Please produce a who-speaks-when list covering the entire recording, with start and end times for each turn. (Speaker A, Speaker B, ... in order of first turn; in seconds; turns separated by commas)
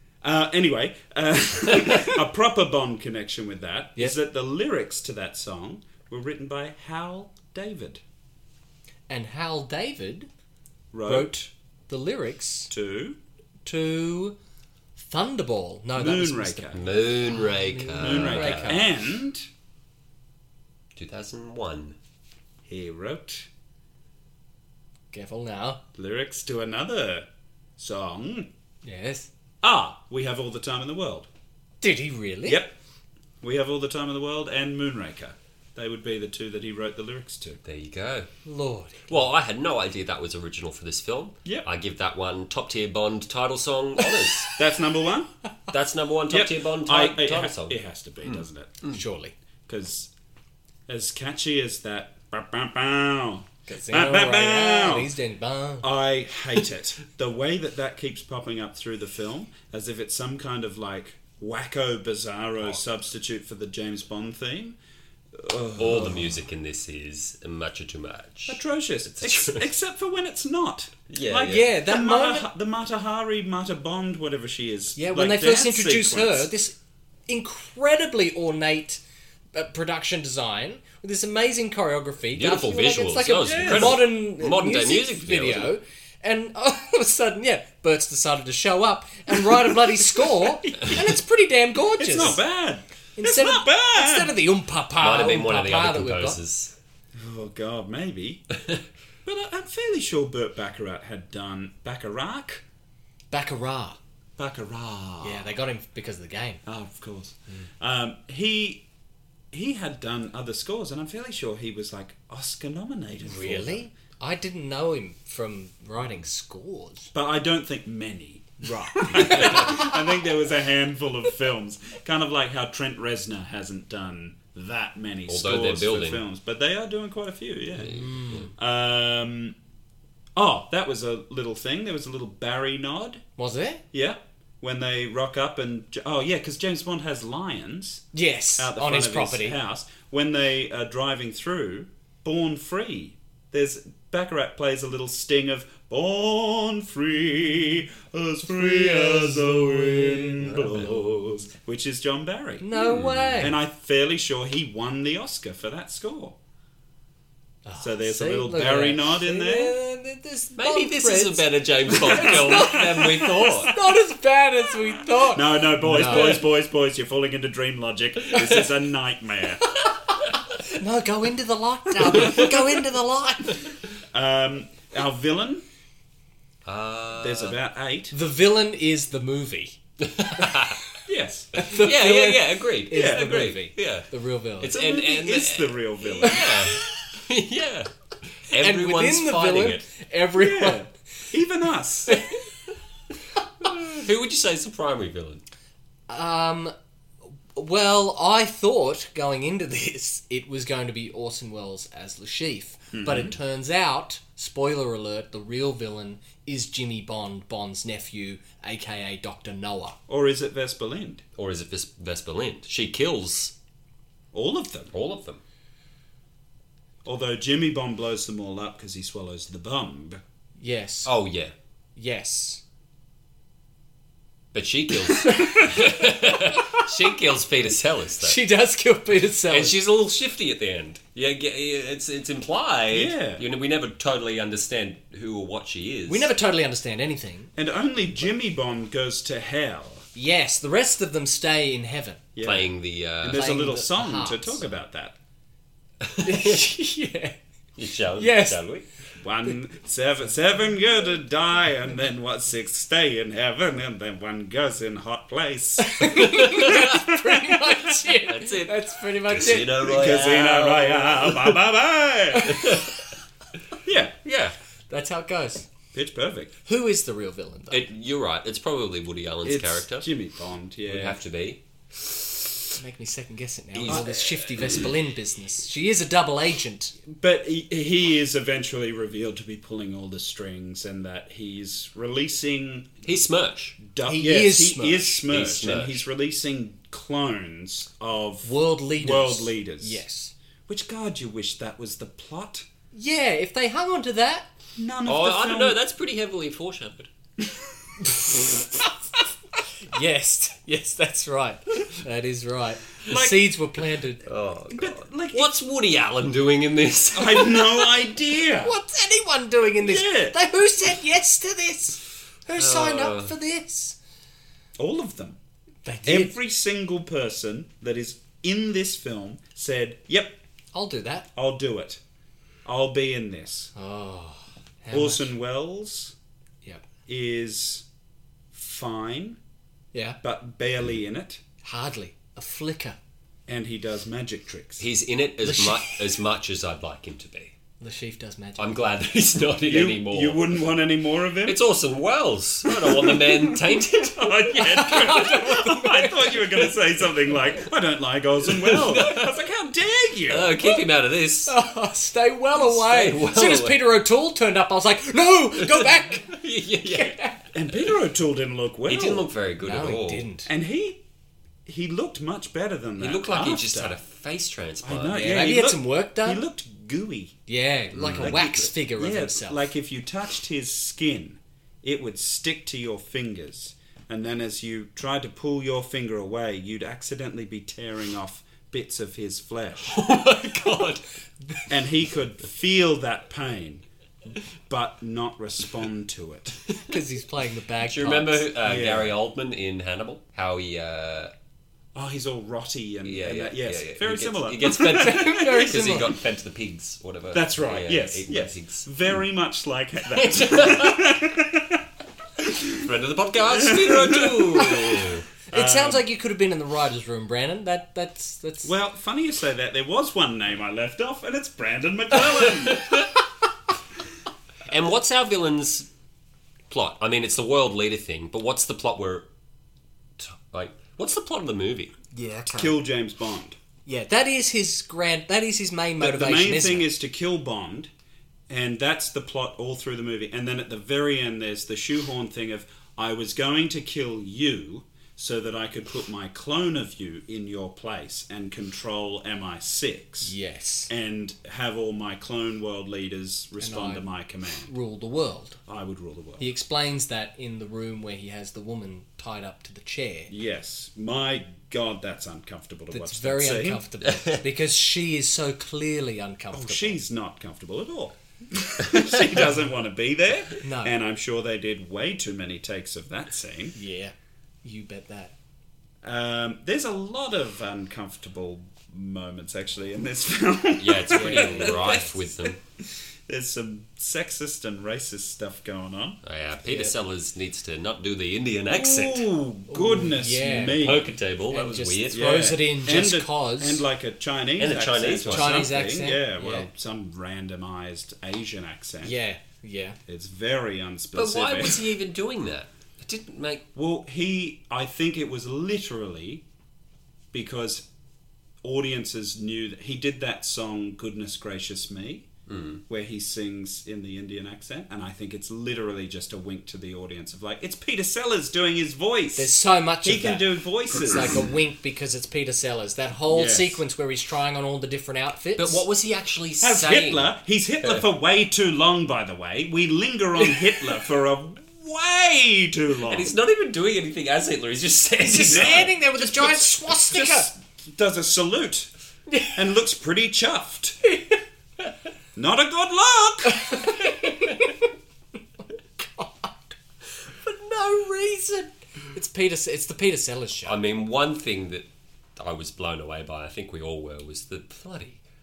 Speaker A: 0.2-8.0, Speaker B: 9.1-10.3, Speaker A: 10.9-11.5, Speaker B: 11.1-12.7, Speaker A: 12.7-13.2, Speaker B: 13.7-14.4, Speaker B: 15.0-18.9, Speaker A: 16.0-16.9, Speaker C: 16.7-18.8, Speaker A: 18.0-19.5, Speaker C: 21.0-22.0, Speaker A: 22.6-23.5, Speaker B: 25.1-25.8, Speaker A: 25.9-27.3, Speaker A: 27.8-28.5, Speaker B: 28.8-29.3, Speaker A: 29.6-31.3, Speaker B: 31.8-32.6, Speaker A: 32.5-32.7, Speaker A: 33.4-37.6, Speaker C: 37.6-38.3, Speaker B: 38.5-39.1, Speaker C: 39.1-44.5, Speaker A: 44.6-45.3, Speaker C: 45.7-49.0, Speaker A: 46.3-48.8, Speaker B: 48.9-49.3, Speaker A: 49.7-50.1, Speaker A: 50.9-55.1, Speaker B: 53.7-55.9, Speaker A: 55.8-64.8, Speaker A: 65.3-66.4, Speaker C: 65.8-69.7, Speaker A: 68.5-76.5, Speaker C: 71.1-71.7, Speaker B: 71.5-72.5, Speaker B: 75.0-76.8, Speaker B: 77.3-79.0, Speaker B: 79.5-92.4, Speaker C: 82.3-85.8, Speaker A: 83.4-84.0, Speaker A: 89.5-91.2, Speaker A: 92.0-94.3, Speaker B: 93.2-96.4, Speaker C: 95.0-96.8, Speaker A: 97.2-98.4, Speaker A: 99.2-102.6, Speaker B: 103.3-104.0, Speaker A: 104.4-105.5, Speaker B: 105.2-106.6, Speaker A: 106.7-108.8, Speaker A: 109.5-113.8, Speaker B: 113.2-117.1, Speaker A: 117.1-129.6, Speaker B: 118.6-120.0, Speaker C: 125.3-126.2, Speaker C: 127.8-128.5, Speaker B: 127.9-128.5, Speaker A: 130.4-133.2, Speaker B: 133.4-133.8, Speaker A: 133.9-138.1, Speaker B: 138.1-139.6, Speaker A: 138.6-152.7, Speaker B: 148.4-151.5, Speaker B: 152.6-153.6, Speaker C: 152.8-153.4, Speaker A: 153.4-156.4, Speaker B: 157.7-166.5, Speaker A: 157.8-159.8, Speaker C: 160.6-163.7, Speaker A: 162.0-162.8, Speaker A: 163.7-163.9, Speaker A: 165.2-169.7, Speaker C: 166.1-166.4, Speaker B: 170.4-173.7, Speaker C: 172.2-172.5, Speaker A: 174.1-175.7, Speaker C: 176.7-177.6, Speaker A: 177.2-178.2, Speaker B: 178.1-179.8, Speaker C: 180.0-180.8, Speaker B: 180.4-180.6, Speaker A: 181.1-181.5, Speaker B: 181.6-184.8, Speaker C: 181.7-184.1, Speaker A: 182.9-183.5, Speaker C: 184.6-189.8, Speaker A: 184.7-186.6, Speaker B: 186.2-186.9, Speaker B: 188.6-190.8, Speaker A: 190.3-192.2, Speaker B: 192.1-192.4, Speaker C: 193.6-195.4, Speaker B: 196.1-196.7, Speaker B: 197.6-210.0, Speaker A: 202.9-203.4, Speaker A: 210.1-211.2, Speaker C: 211.4-213.5, Speaker A: 214.3-214.9, Speaker C: 214.9-215.4, Speaker A: 217.1-220.2, Speaker B: 220.6-221.1, Speaker C: 221.1-221.5, Speaker B: 222.0-222.6, Speaker C: 224.5-228.4, Speaker B: 225.2-226.8, Speaker B: 228.2-229.8, Speaker C: 229.5-236.3, Speaker A: 232.9-233.4, Speaker B: 236.1-237.5, Speaker A: 237.6-240.1, Speaker B: 240.2-242.2, Speaker A: 242.3-245.2, Speaker C: 242.4-243.5, Speaker B: 243.3-244.7, Speaker C: 246.0-246.6, Speaker B: 246.2-247.4, Speaker C: 247.8-248.9, Speaker B: 248.2-248.6, Speaker A: 249.2-257.6, Speaker B: 255.8-259.8, Speaker C: 256.4-256.8, Speaker C: 257.9-261.6, Speaker A: 259.8-262.8, Speaker B: 262.3-262.8, Speaker C: 262.4-263.0, Speaker A: 263.8-264.2, Speaker C: 264.2-264.6, Speaker B: 264.9-265.7, Speaker A: 265.9-266.5, Speaker B: 266.7-267.9, Speaker C: 267.7-270.1, Speaker A: 269.4-271.2, Speaker C: 270.9-271.6, Speaker B: 272.8-276.9, Speaker C: 273.8-274.9, Speaker A: 273.9-274.9, Speaker A: 277.1-283.0, Speaker C: 283.0-283.8, Speaker A: 283.8-290.0, Speaker B: 284.1-285.2, Speaker C: 285.3-286.0, Speaker B: 288.4-290.3, Speaker A: 290.7-292.7, Speaker B: 292.9-294.5, Speaker A: 294.8-295.8, Speaker C: 295.1-297.1, Speaker B: 298.1-298.9, Speaker B: 299.8-304.2, Speaker A: 303.1-303.4, Speaker C: 304.2-307.9, Speaker A: 304.7-305.5, Speaker A: 307.1-308.7, Speaker B: 308.6-314.0, Speaker A: 309.8-310.4, Speaker C: 312.6-313.3, Speaker A: 314.8-315.4, Speaker B: 315.9-316.4, Speaker A: 316.1-320.4, Speaker B: 320.7-321.3, Speaker A: 321.4-322.0, Speaker A: 322.6-323.7, Speaker B: 323.8-325.3, Speaker A: 324.9-326.1, Speaker A: 327.1-327.9, Speaker A: 328.5-329.4, Speaker B: 329.9-330.2, Speaker A: 330.2-331.4, Speaker B: 331.6-333.0, Speaker A: 333.5-334.9, Speaker C: 334.8-337.6, Speaker B: 335.4-336.1, Speaker B: 337.8-338.8, Speaker C: 338.6-340.5, Speaker A: 339.6-341.6, Speaker C: 341.5-345.1, Speaker A: 342.7-350.6, Speaker B: 344.7-346.4, Speaker C: 348.5-349.4, Speaker C: 350.3-351.6, Speaker B: 351.5-357.4, Speaker C: 352.6-353.9, Speaker C: 355.6-357.2, Speaker A: 357.5-359.3, Speaker C: 358.9-360.3, Speaker B: 359.6-360.5, Speaker A: 360.5-361.0, Speaker A: 361.7-364.0, Speaker C: 363.0-365.3, Speaker A: 364.8-367.4, Speaker B: 365.1-366.4, Speaker B: 367.5-369.6, Speaker C: 367.9-368.5, Speaker A: 368.1-380.0, Speaker C: 379.9-381.0, Speaker A: 381.7-383.9, Speaker A: 384.7-386.6, Speaker B: 386.9-388.4, Speaker C: 387.8-391.3, Speaker A: 388.6-389.1, Speaker A: 391.9-395.7, Speaker C: 393.1-398.9, Speaker B: 394.6-396.1, Speaker A: 397.3-401.9, Speaker C: 400.1-401.1, Speaker A: 402.4-402.9, Speaker C: 402.7-405.2, Speaker A: 403.4-406.1, Speaker B: 405.5-408.7, Speaker A: 408.6-412.9, Speaker C: 412.7-413.1, Speaker C: 414.7-415.9, Speaker C: 416.7-419.3, Speaker C: 420.2-421.9, Speaker B: 422.1-422.8, Speaker A: 422.5-423.6, Speaker B: 423.9-426.9, Speaker A: 426.0-427.9, Speaker A: 428.5-440.3, Speaker B: 440.2-440.9, Speaker A: 440.9-444.7, Speaker B: 443.6-444.1, Speaker B: 444.6-445.6, Speaker A: 445.7-446.4, Speaker B: 446.4-450.3, Speaker A: 450.3-453.9, Speaker B: 452.9-457.0, Speaker C: 454.0-454.4, Speaker A: 456.5-463.8, Speaker B: 460.6-461.0, Speaker B: 463.8-465.3, Speaker A: 466.0-472.6, Speaker C: 470.8-472.6, Speaker B: 471.1-472.1, Speaker A: 473.3-476.2, Speaker C: 476.2-479.3, Speaker B: 476.7-476.9, Speaker A: 478.7-481.1, Speaker B: 479.7-480.9, Speaker C: 480.6-482.4, Speaker B: 481.5-483.8, Speaker A: 482.1-489.2, Speaker C: 484.6-485.7, Speaker B: 485.3-486.7, Speaker B: 489.0-490.0, Speaker A: 490.1-491.9, Speaker C: 491.1-493.6, Speaker A: 493.8-496.4, Speaker A: 497.3-497.9, Speaker A: 498.6-502.3, Speaker C: 502.5-502.8, Speaker A: 502.9-511.5, Speaker B: 509.4-515.9, Speaker A: 513.3-513.8, Speaker C: 515.6-518.0, Speaker A: 516.6-523.3, Speaker C: 523.1-525.9, Speaker B: 525.2-527.5, Speaker A: 525.5-528.9, Speaker B: 529.3-529.5, Speaker A: 529.5-531.0, Speaker B: 531.0-531.4, Speaker A: 532.4-533.9, Speaker B: 533.5-534.9, Speaker B: 536.0-536.5, Speaker B: 537.4-540.8, Speaker C: 540.6-545.2